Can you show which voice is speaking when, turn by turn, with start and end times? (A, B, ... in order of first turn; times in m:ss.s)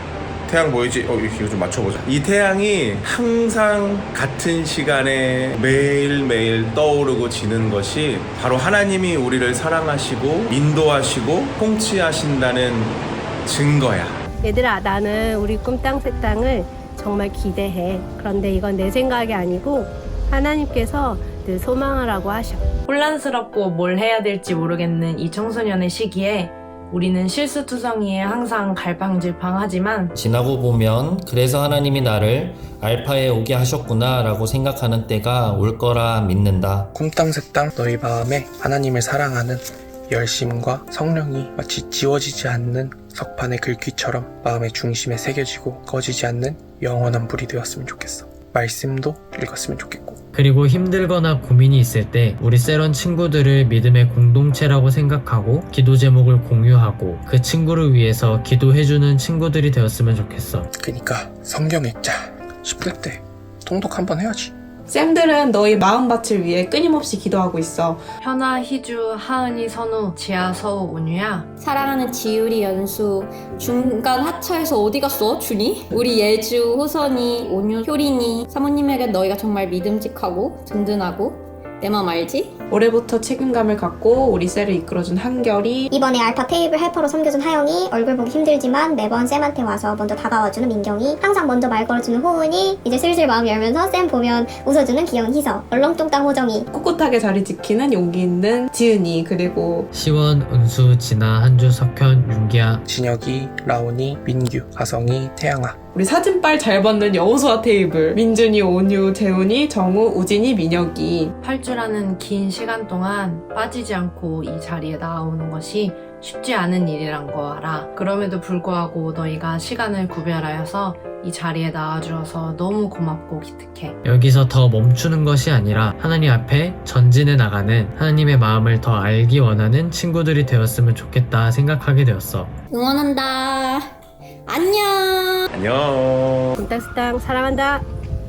0:00.5-0:14.2 A
0:14.4-0:22.6 B
0:22.9-0:30.1 C
0:30.2-0:36.9 D
0:36.9-0:50.2 E
0:50.3-1:00.7 F
1:00.8-1:04.5 E
1:04.9-1:08.0 G
1:08.2-1:11.5 C
1:11.6-1:22.6 H
1:22.7-1:25.9 G
1:25.9-1:36.7 I
1:36.7-1:39.9 G
1:39.9-1:42.8 F
1:42.9-1:45.8 E
1:45.9-1:51.3 G
1:51.4-2:04.0 C
2:04.0-2:12.5 F
2:12.7-2:13.9 H
2:14.5-2:15.5 H
2:15.5-2:16.6 A
2:16.6-2:17.8 B